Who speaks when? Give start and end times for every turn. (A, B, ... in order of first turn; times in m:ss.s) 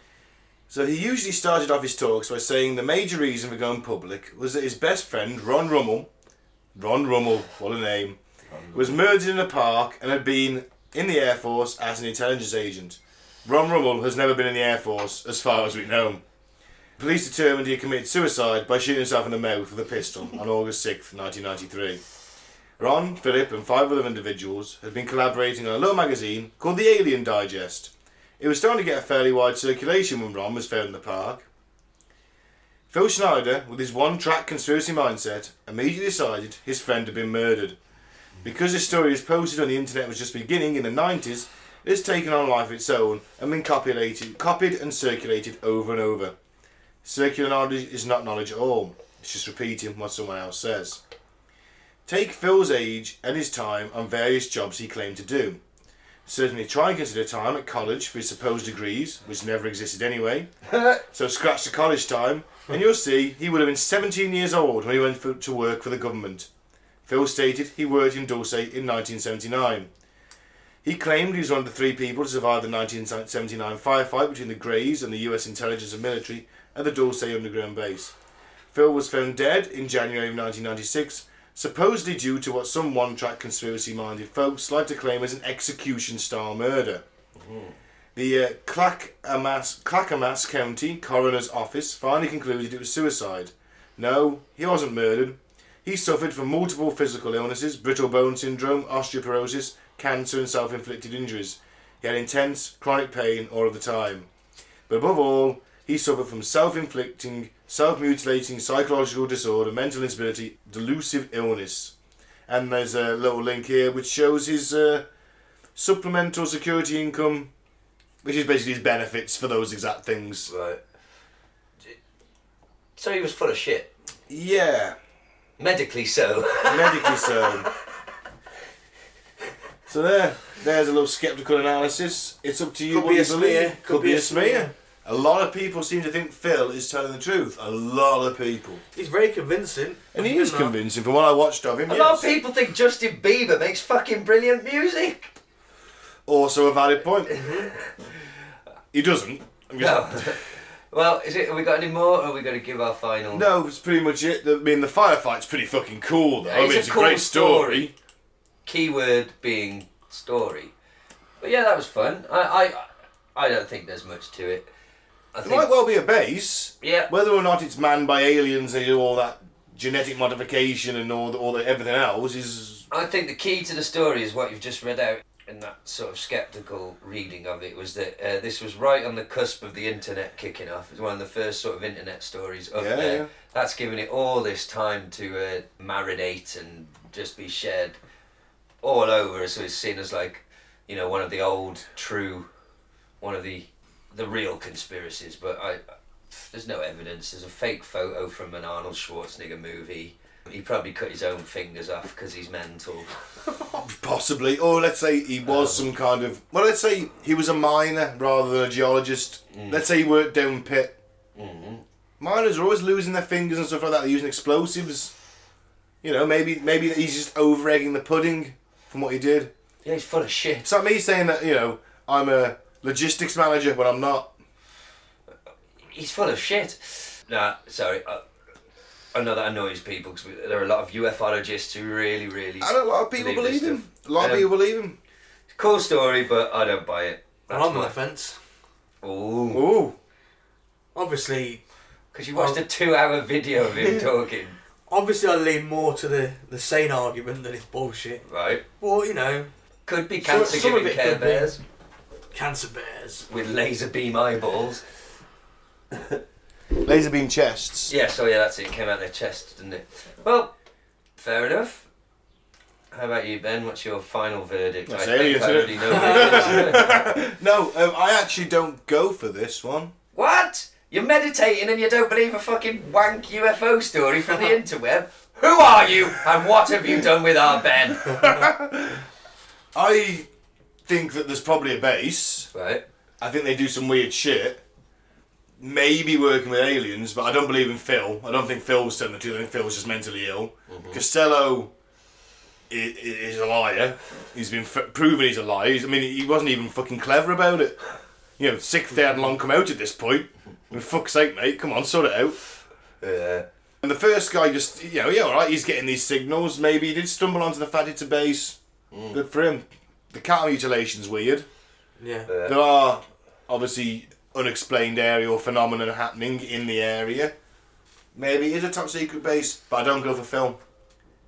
0:00.7-0:06.1 A
0:06.8-0:08.2 A
0:08.7-0:16.2 A
0:17.0-0:22.0 A
0:22.8-0:31.5 A
0:32.9-0:37.8 A
0:38.4-0:46.3 A
0:47.0-0:51.0 A
0:52.1-0:55.6 A
0:56.3-1:00.5 A
1:01.0-1:06.5 A
1:07.1-1:09.9 A
1:10.8-1:18.1 A
1:18.7-1:27.0 A
1:27.4-1:27.8 B
1:28.2-1:44.3 A
1:44.9-1:51.9 A
1:52.5-1:55.1 A
1:55.8-1:57.5 A
1:58.2-2:00.5 A
2:00.5-2:00.8 B
2:03.0-2:03.9 B
2:04.3-2:05.0 A
2:05.6-2:07.5 B
2:06.6-2:07.7 A
2:09.9-2:18.8 A
2:12.9-2:14.7 C
2:19.0-2:20.8 C
2:20.1-2:22.3 A
2:21.9-2:25.3 B
2:26.3-2:27.4 A
2:27.3-2:27.7 C
2:28.9-2:30.4 A
2:29.8-2:33.5 B
2:33.3-2:37.9 A
2:36.4-2:37.9 B
2:38.7-2:40.7 B
2:41.4-2:44.7 B
2:45.3-2:45.7 B
2:45.4-2:52.9 A
2:46.8-2:47.1 B
2:52.9-3:08.0 B
3:02.7-3:03.3 A
3:08.8-3:12.5 B
3:13.2-3:15.8 B
3:16.3-3:23.1 B
3:23.7-3:31.0 A
3:29.5-3:29.8 B
3:31.4-3:31.8 B
3:32.2-3:35.1 A
3:36.0-3:39.5 A
3:39.8-3:40.7 B
3:40.6-3:44.3 A
3:45.9-3:48.2 B
3:49.1-3:54.5 B
3:52.6-3:55.0 A
3:55.5-3:57.9 B
3:57.5-3:58.4 C
3:59.0-3:59.6 B
3:59.5-4:00.0 A
4:01.0-4:01.6 C
4:02.1-4:04.6 B
4:04.9-4:08.2 C
4:08.2-4:08.6 B
4:08.8-4:09.5 C
4:09.9-4:11.6 B
4:10.2-4:11.5 C
4:12.3-4:13.3 C
4:13.3-4:14.8 B
4:16.8-4:17.9 A
4:17.9-4:20.5 B
4:21.2-4:21.9 B
4:22.9-4:27.0 B
4:24.9-4:29.9 A
4:26.0-4:26.5 C
4:30.2-4:38.3 B
4:38.2-4:39.0 A
4:39.8-4:40.3 A
4:40.9-4:42.5 A
4:42.5-4:42.8 B
4:43.2-4:44.6 A
4:45.6-4:51.7 A
4:50.7-4:51.0 B
4:52.7-4:57.8 A
4:58.4-5:02.4 A
5:03.0-5:03.4 B
5:03.8-5:08.6 A
5:08.9-5:09.2 B
5:09.1-5:11.5 A
5:12.0-5:12.3 C
5:12.3-5:12.6 B
5:12.4-5:17.3 A
5:18.2-5:20.6 A